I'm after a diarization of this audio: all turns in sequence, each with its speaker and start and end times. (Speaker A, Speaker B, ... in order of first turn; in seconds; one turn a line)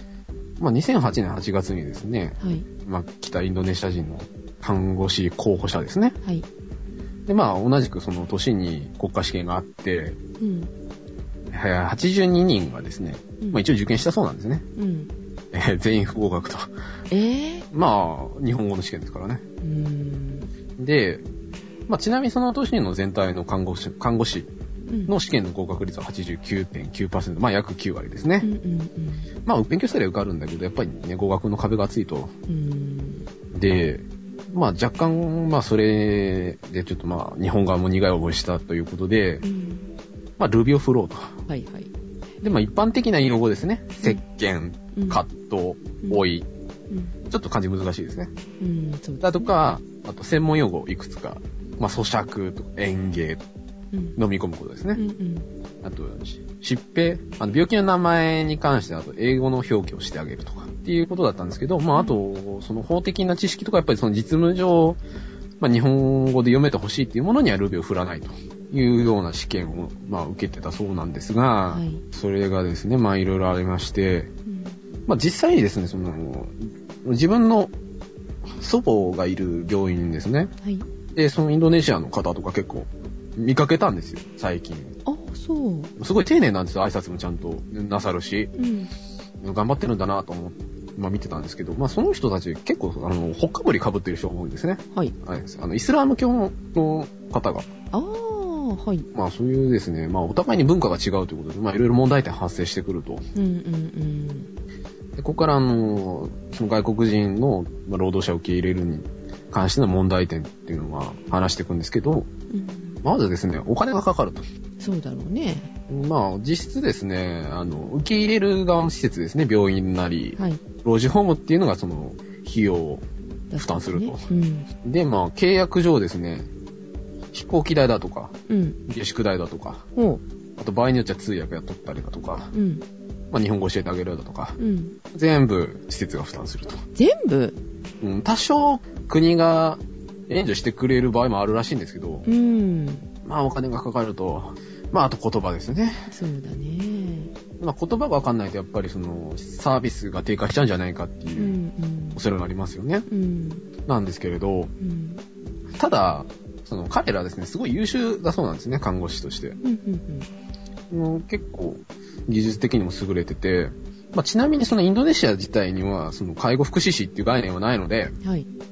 Speaker A: 0.6-6.2
Speaker B: 2.4-2.6
Speaker A: 7.3-10.2
Speaker B: 10.4-10.7
Speaker A: 11.5-14.6
Speaker B: 14.8-15.1
Speaker A: 15.5-16.7
Speaker B: 17.1-17.6
Speaker A: 17.7-19.4
Speaker B: 19.6-20.5
Speaker A: 20.8-21.2
Speaker A: 21.9-24.5
Speaker B: 24.9-25.1
Speaker A: 25.1-28.5
Speaker B: 28.4-29.3
Speaker A: 29.4-32.3
Speaker B: 32.5-33.3
Speaker A: 33.5-39.4
Speaker B: 39.4-39.9
Speaker A: 40.4-41.4
Speaker B: 41.5-41.9
Speaker A: 42.4-46.5
Speaker B: 44.9-45.2
Speaker A: 47.3-48.3
Speaker B: 48.6-49.5
Speaker A: 49.2-53.4
Speaker B: 53.9-54.2
Speaker A: 54.2-55.0
Speaker B: 54.9-55.5
Speaker A: 55.8-65.0
Speaker A: 65.6-74.3
Speaker B: 71.7-72.0
Speaker B: 74.5-74.8
Speaker A: 75.1-77.7
Speaker A: 78.5-80.5
Speaker A: 81.1-85.0
Speaker B: 85.0-85.9
Speaker A: 86.0-88.5
Speaker B: 88.5-88.9
Speaker A: 89.4-97.7
Speaker B: 97.9-99.1
Speaker A: 99.1-103.3
Speaker B: 103.3-104.5
Speaker A: 105.2-112.3
Speaker B: 112.5-113.0
Speaker A: 113.0-114.4
Speaker B: 114.8-115.7
Speaker A: 115.9-123.0
Speaker B: 123.5-124.7
Speaker A: 123.5-124.3
Speaker A: 124.8-126.5
Speaker A: 127.3-129.9
Speaker B: 128.5-128.8
Speaker B: 129.9-130.2
Speaker A: 130.6-132.5
Speaker B: 132.5-132.8
Speaker A: 133.3-134.6
Speaker B: 134.6-135.0
Speaker A: 135.1-136.8
Speaker B: 136.9-137.6
Speaker A: 138.0-142.3
Speaker B: 142.2-143.1
Speaker A: 143.2-146.1
Speaker B: 146.1-147.3
Speaker A: 147.6-151.6
Speaker B: 151.4-152.2
Speaker A: 152.2-153.1
Speaker B: 153.1-153.7
Speaker A: 153.8-154.7
Speaker B: 154.8-155.2
Speaker A: 155.7-159.6
Speaker B: 159.6-160.3
Speaker A: 160.9-168.2
Speaker B: 168.2-168.5